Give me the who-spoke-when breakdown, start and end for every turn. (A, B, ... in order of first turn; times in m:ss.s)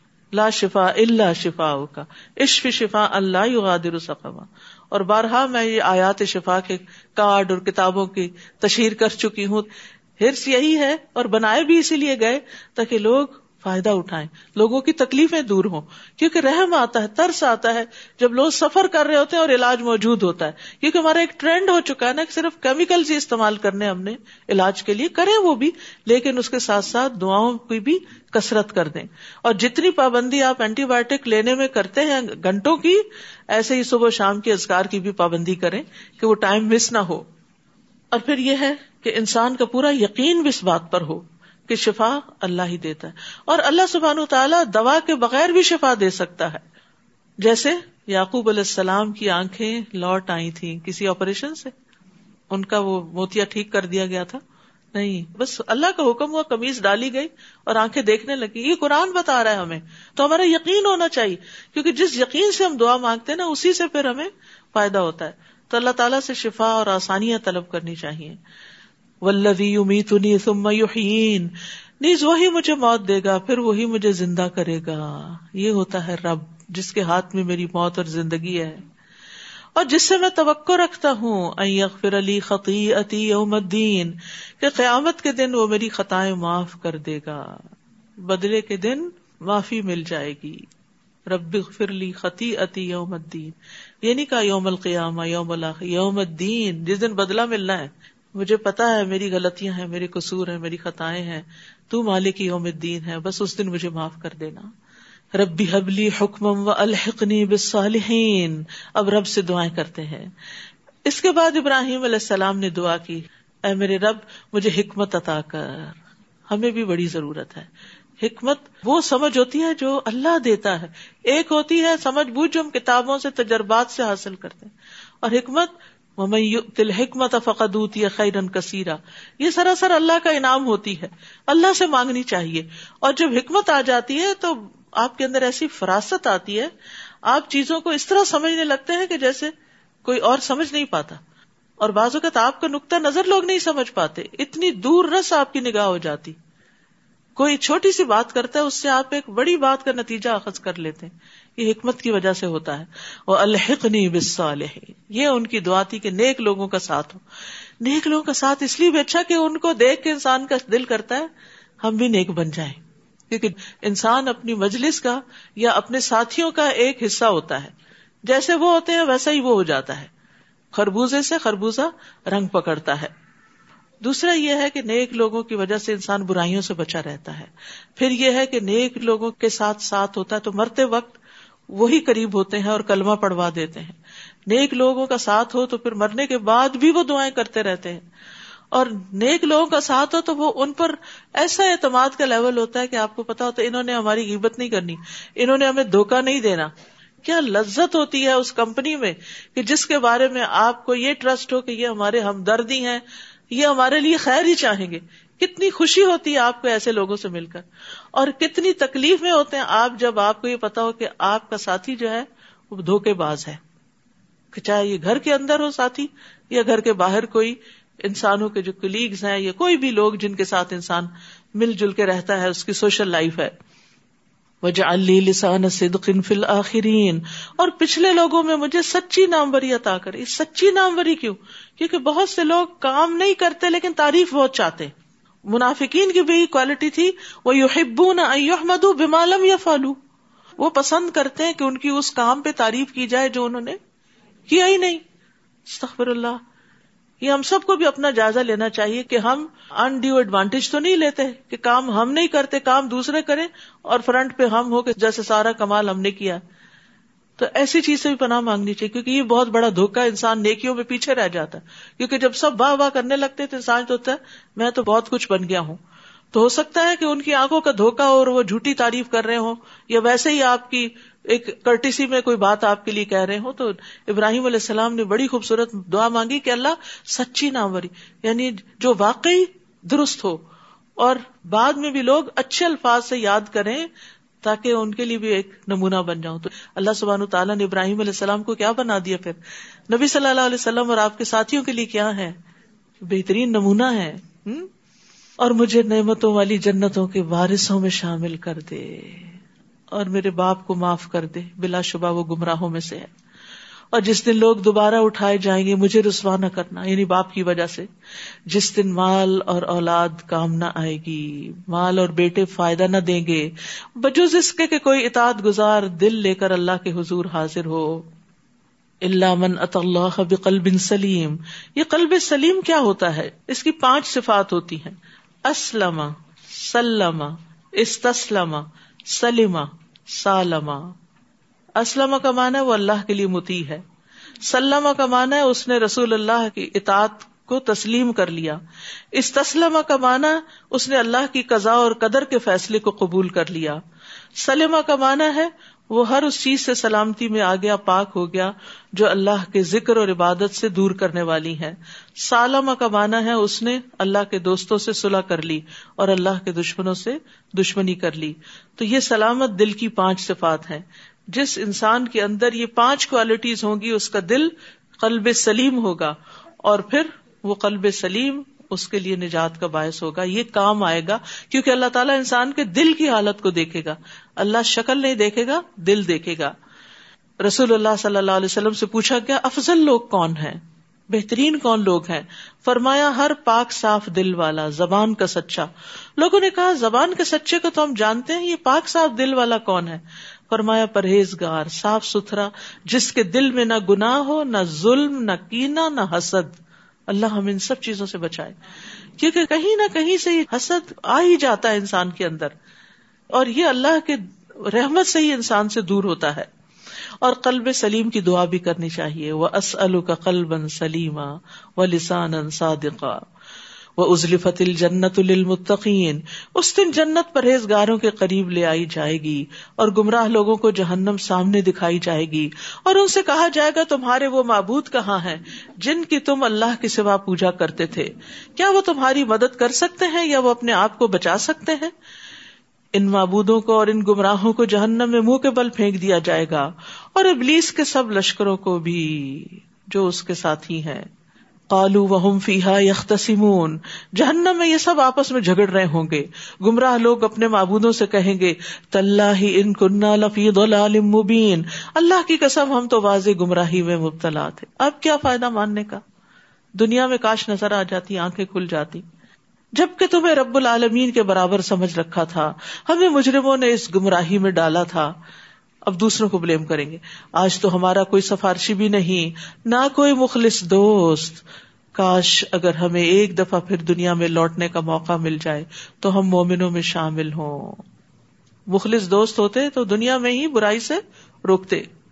0:00.3-0:37.2 A
0:38.1-0:46.6 A
0:47.4-0:51.7 A
0:52.5-0:54.4 A
0:54.9-1:08.4 A
1:09.2-1:18.8 A
1:19.8-1:27.6 A
1:28.2-1:30.7 A
1:31.3-1:44.7 A
1:45.3-1:50.3 A
1:51.0-1:56.0 A
1:56.5-2:16.7 A
2:17.3-2:19.5 A
2:20.0-2:21.2 A
2:21.8-2:26.4 A
2:27.4-2:37.2 A
2:37.8-2:41.3 A
2:41.8-2:42.8 A
2:43.3-2:47.7 A
2:48.2-2:50.1 A
2:50.7-2:53.1 A
2:54.0-3:01.2 A
3:01.7-3:08.0 A
3:08.7-3:16.7 A
3:17.2-3:27.6 A
3:28.2-3:33.6 A
3:34.5-3:43.5 A
3:44.6-3:54.9 A
3:55.5-4:00.0 A
4:00.6-4:03.8 A
4:04.5-4:05.0 A
4:05.7-4:06.4 A
4:07.2-4:16.4 A
4:17.4-4:25.8 A
4:26.3-4:40.4 A
4:41.0-4:43.9 A
4:44.4-4:52.4 A
4:53.0-4:54.7 A
4:55.4-4:59.4 A
4:59.9-5:03.1 A
5:03.9-5:07.9 A
5:08.5-5:18.1 A
5:19.0-5:30.9 A
5:31.8-5:33.8 A
5:34.5-5:38.6 A
5:39.2-5:43.8 A
5:44.4-6:16.5 A
6:17.4-6:36.6 A
6:37.1-6:38.5 A
6:39.2-6:42.5 A
6:43.3-6:46.5 A
6:47.2-6:53.2 A
6:54.0-7:11.9 A
7:12.9-7:21.1 A
7:21.7-7:36.0 A
7:36.8-7:39.0 A
7:39.7-7:45.2 A
7:45.8-7:51.4 A
7:51.9-7:57.8 A
7:58.7-8:01.8 A